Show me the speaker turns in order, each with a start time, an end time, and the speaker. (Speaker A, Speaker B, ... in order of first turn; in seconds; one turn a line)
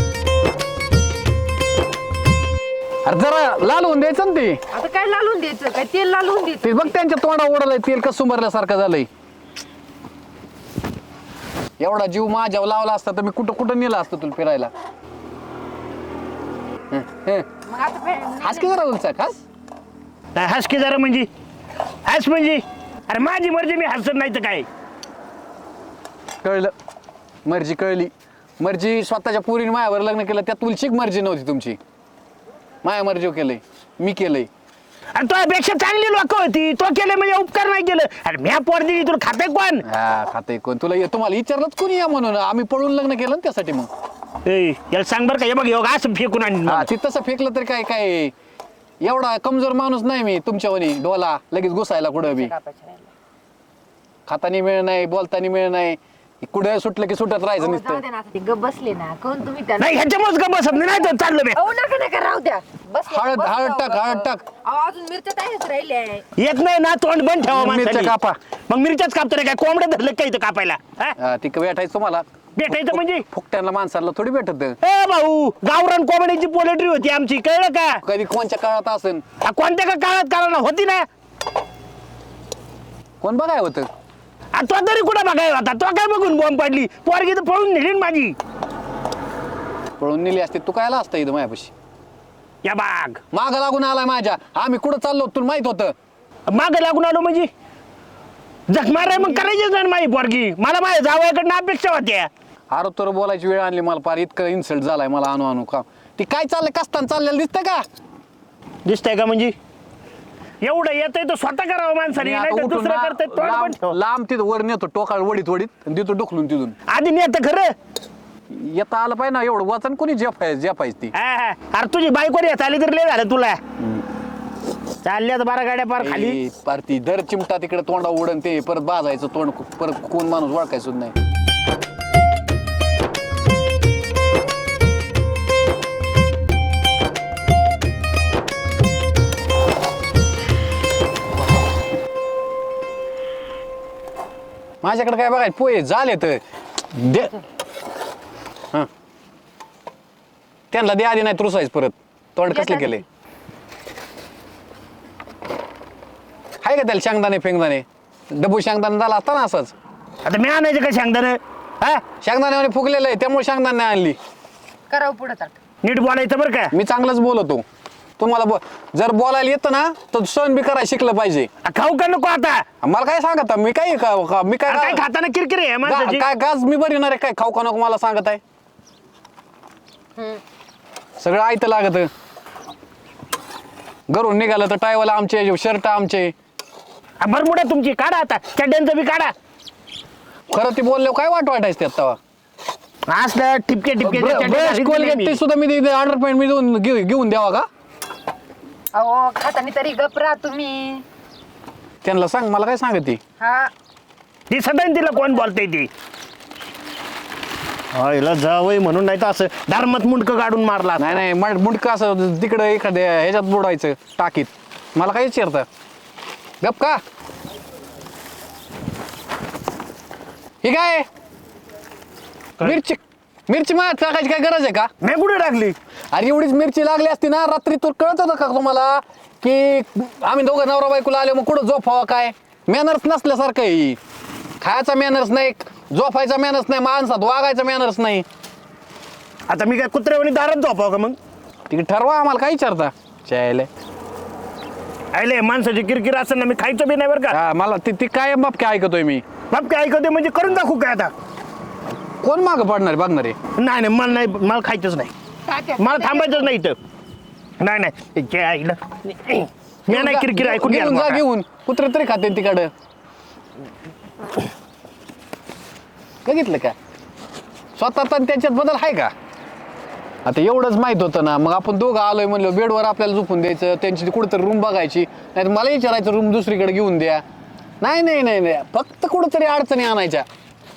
Speaker A: 3.0-4.6
Speaker B: 4.7-6.9
Speaker A: 6.6-9.1
Speaker A: 11.8-14.7
Speaker A: 16.9-17.5
Speaker B: 17.6-18.8
Speaker A: 18.4-19.4
Speaker C: 20.3-21.3
Speaker C: 22.1-24.7
Speaker A: 26.4-26.7
Speaker A: 27.4-31.8
Speaker A: 32.8-34.5
Speaker C: 35.1-39.8
Speaker A: 39.8-43.9
Speaker C: 44.5-46.9
Speaker A: 46.6-48.3
Speaker A: 49.0-52.5
Speaker B: 52.2-53.1
Speaker A: 54.3-58.0
Speaker B: 57.6-60.0
Speaker C: 59.8-61.6
Speaker B: 60.8-66.2
Speaker A: 63.1-64.4
Speaker C: 66.4-68.1
Speaker A: 67.5-68.4
Speaker C: 68.7-71.2
Speaker A: 71.2-74.8
Speaker C: 72.5-73.2
Speaker C: 74.8-78.0
Speaker A: 78.0-79.2
Speaker C: 79.4-81.1
Speaker A: 83.2-83.9
Speaker C: 84.5-88.3
Speaker A: 90.0-91.7
Speaker C: 92.6-93.2
Speaker A: 93.3-95.9
Speaker C: 96.5-97.5
Speaker C: 98.7-102.3
Speaker A: 102.7-107.8
Speaker C: 108.8-109.5
Speaker C: 110.6-113.9
Speaker A: 112.2-116.7
Speaker C: 116.9-117.7
Speaker A: 118.5-121.1
Speaker C: 121.1-123.6
Speaker A: 123.8-124.0
Speaker C: 125.0-126.4
Speaker A: 126.0-131.1
Speaker A: 144.8-146.4
Speaker A: 146.9-147.4
Speaker A: 150.7-153.0
Speaker B: 152.5-153.0
Speaker A: 156.6-159.7
Speaker C: 160.2-162.0
Speaker A: 162.2-164.2
Speaker B: 164.9-165.6
Speaker C: 165.8-166.7
Speaker A: 166.7-167.6
Speaker A: 168.2-171.5
Speaker C: 171.6-172.6
Speaker A: 172.8-175.0
Speaker C: 174.7-176.2
Speaker A: 175.8-178.4
Speaker A: 181.2-182.1
Speaker A: 184.1-186.3
Speaker C: 187.2-189.3
Speaker A: 190.5-192.2
Speaker C: 193.1-195.4
Speaker A: 194.0-197.7
Speaker B: 198.9-201.0
Speaker A: 202.0-203.2
Speaker B: 203.4-203.7
Speaker C: 204.5-205.9
Speaker C: 207.9-211.2
Speaker A: 211.0-215.7
Speaker A: 216.6-217.0
Speaker A: 220.6-221.1
Speaker A: 222.6-224.9
Speaker C: 225.0-225.8
Speaker A: 226.1-234.0
Speaker A: 234.6-238.2
Speaker C: 239.5-241.2
Speaker A: 241.7-243.7
Speaker C: 245.1-247.4
Speaker A: 247.3-249.2
Speaker C: 249.5-251.1
Speaker A: 252.2-253.4
Speaker C: 253.6-255.1
Speaker B: 255.4-256.5
Speaker C: 255.8-256.8
Speaker C: 257.6-261.2
Speaker A: 259.9-262.7
Speaker A: 266.2-266.7
Speaker A: 267.8-269.1
Speaker A: 270.2-277.2
Speaker A: 277.8-280.2